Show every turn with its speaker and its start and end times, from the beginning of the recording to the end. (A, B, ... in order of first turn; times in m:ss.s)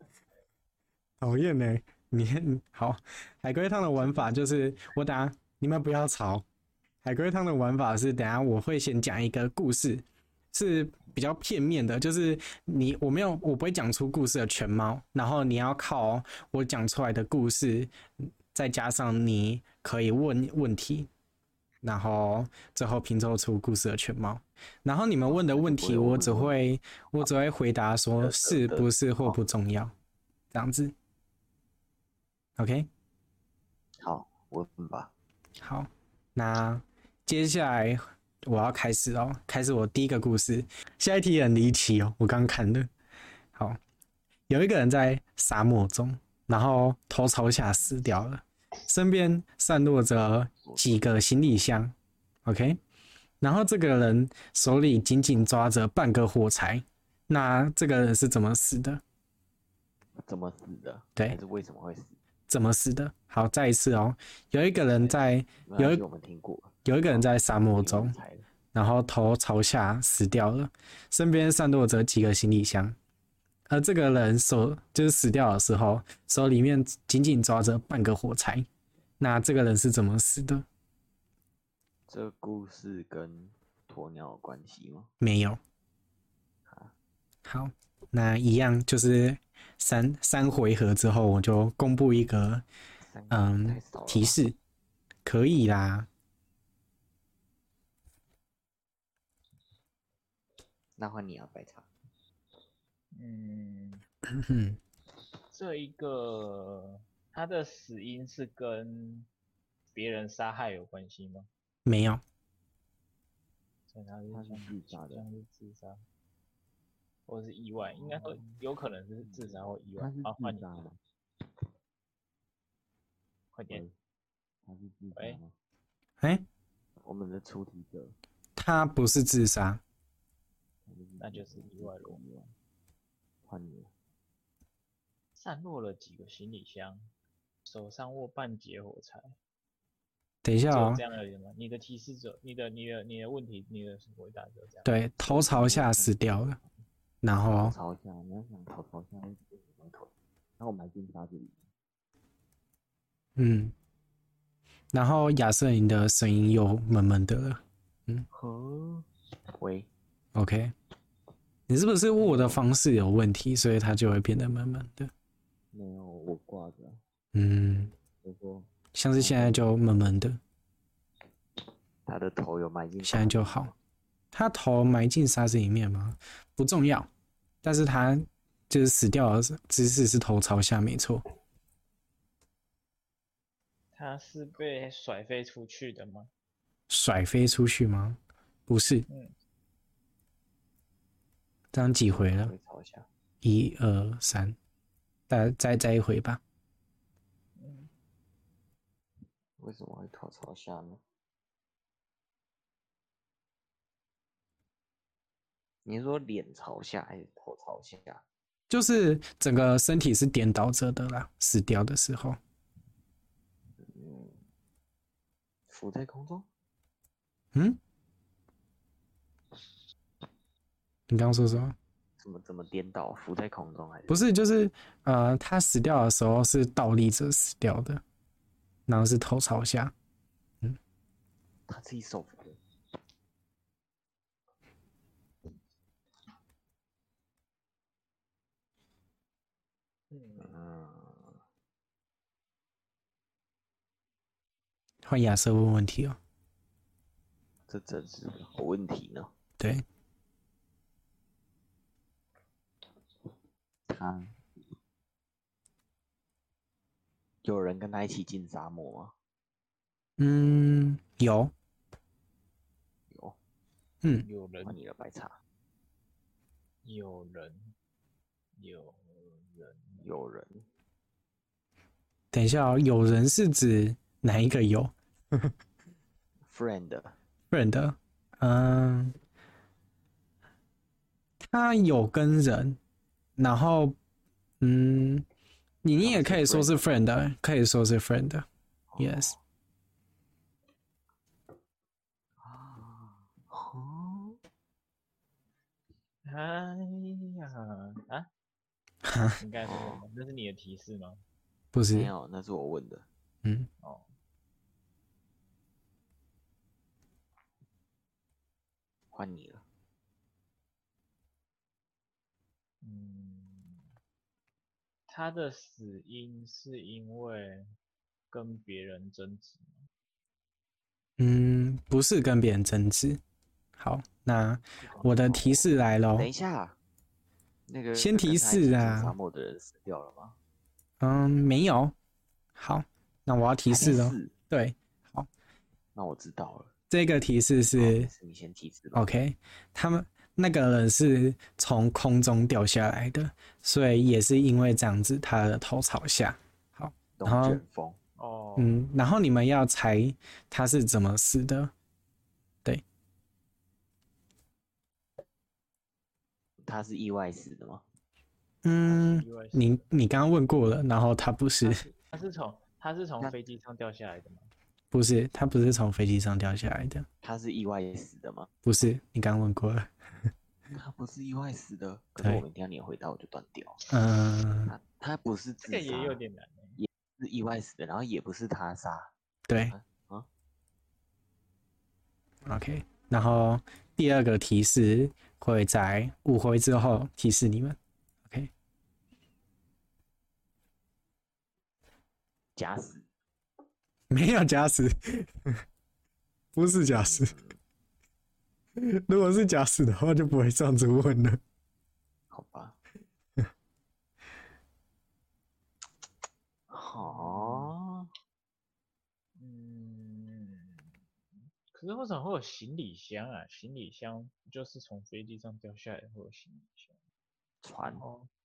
0:01.2-0:06.4 A
0:04.0-0:04.3 B
0:07.0-0:17.9 A
0:18.5-0:21.1 A
0:21.8-0:29.9 A
0:25.2-0:26.6 B
0:28.2-0:29.4 B
0:30.5-0:30.9 A
0:32.6-0:32.9 A
0:34.0-0:35.1 B
0:35.6-0:42.9 A
0:43.5-0:43.8 A
0:44.5-0:52.8 A
0:50.6-0:51.2 B
0:53.4-0:59.0 A
1:00.2-1:02.2 B
1:02.5-1:06.0 A
1:04.8-1:08.4 B
1:06.8-1:08.1 A
1:08.7-1:13.0 A
1:13.7-1:18.7 A
1:19.2-1:20.6 A
1:22.1-1:25.1 B
1:25.2-1:25.6 A
1:26.7-1:26.9 B
1:27.4-1:32.6 A
1:33.0-1:34.4 B
1:33.3-1:34.5 A
1:35.2-1:36.1 A
1:41.0-1:41.9 B
1:43.1-1:44.0 C
1:44.3-1:44.8 A
1:45.5-1:49.3 C
1:49.9-1:51.5 C
1:51.8-1:52.2 A
1:53.9-1:56.0 C
1:54.3-1:55.2 B
1:57.3-2:00.6 C
1:57.8-1:58.6 B
1:59.2-2:01.0 B
2:03.5-2:03.8 C
2:04.6-2:05.5 B
2:06.2-2:06.4 A
2:07.0-2:08.1 B
2:08.6-2:09.8 A
2:10.8-2:12.5 B
2:11.2-2:12.2 C
2:13.4-2:13.9 B
2:15.4-2:17.1 C
2:17.6-2:19.3 C
2:20.4-2:21.0 A
2:20.7-2:24.9 C
2:24.8-2:26.6 A
2:25.2-2:26.4 B
2:27.2-2:27.7 A
2:27.4-2:31.6 B
2:33.4-2:33.7 A
2:34.9-2:38.2 A
2:38.3-2:39.1 B
2:39.6-2:39.9 B
2:40.3-2:40.7 A
2:41.7-2:45.1 A
2:42.2-2:42.6 B
2:45.7-2:47.0 B
2:47.3-2:47.9 A
2:48.2-2:49.7 B
2:48.9-2:50.4 A
2:52.0-2:53.7 B
2:53.0-2:53.7 A
2:54.3-2:57.1 A
2:57.6-3:01.2 A
3:03.9-3:06.3 C
3:06.9-3:09.1 A
3:09.1-3:09.3 C
3:11.7-3:12.5 A
3:12.2-3:13.1 B
3:13.4-3:14.6 A
3:15.3-3:16.4 A
3:17.6-3:17.9 C
3:19.6-3:21.0 B
3:25.8-3:28.2 B
3:28.7-3:32.4 A
3:33.8-3:34.4 B
3:35.7-3:36.5 B
3:37.5-3:37.8 A
3:41.1-3:41.7 A
3:42.2-3:44.2 B
3:44.1-3:48.0 A
3:48.9-3:49.9 A
3:51.7-3:52.6 B
4:00.1-4:00.6 C
4:00.4-4:01.4 B
4:05.0-4:06.2 A
4:07.7-4:09.3 B
4:13.9-4:14.4 B
4:17.4-4:19.1 B
4:20.2-4:21.5 A
4:23.1-4:23.4 B
4:24.2-4:24.8 C
4:24.6-4:25.4 B
4:26.8-4:27.7 C
4:28.6-4:30.0 C
4:30.0-4:30.6 B
4:32.3-4:35.5 A
4:36.4-4:37.1 B
4:37.5-4:39.1 A
4:41.4-4:42.8 A
4:43.4-4:44.0 A
4:44.6-4:45.2 A
4:45.8-4:48.4 A
4:46.0-4:47.0 B
4:48.9-4:49.4 B
4:49.0-4:49.4 A
4:52.4-4:54.4 B
4:56.2-4:58.3 C
4:59.0-4:59.4 A
4:59.4-5:01.2 C
4:59.6-5:00.0 B
5:01.7-5:02.1 A
5:01.9-5:03.0 B
5:03.4-5:03.7 A
5:03.8-5:04.1 C
5:09.1-5:09.6 B
5:12.8-5:13.9 C
5:15.1-5:17.6 C
5:18.3-5:19.8 C
5:21.2-5:23.2 A
5:23.8-5:26.3 A
5:24.8-5:26.8 B
5:24.8-5:25.5 C
5:27.7-5:30.4 B
5:27.9-5:29.1 A
5:31.0-5:31.9 A
5:32.6-5:35.3 A
5:33.6-5:34.3 B
5:35.9-5:36.7 B
5:36.9-5:38.1 A
5:37.8-5:39.1 B
5:38.9-5:47.6 A
5:47.2-5:48.0 B
5:48.2-5:48.8 C
5:48.6-5:51.7 A
5:56.6-5:57.8 B
5:58.6-6:01.8 A
5:58.8-5:59.9 C
6:01.6-6:04.5 C
6:04.9-6:07.0 A
6:07.2-6:08.5 B
6:08.6-6:09.9 A
6:10.7-6:13.8 B
6:13.9-6:14.7 A
6:14.7-6:16.2 B
6:15.6-6:16.8 C
6:16.8-6:20.3 B
6:19.5-6:19.7 A
6:22.4-6:27.8 A
6:32.6-6:33.0 B
6:34.1-6:35.6 A
6:36.6-6:37.3 A
6:36.9-6:37.6 B
6:38.8-6:41.4 A
6:42.3-6:42.8 B
6:46.7-6:48.1 B
6:47.0-6:47.7 C
6:49.4-6:51.0 C
6:51.7-6:57.0 C
6:57.6-6:58.0 B
6:57.9-6:58.3 C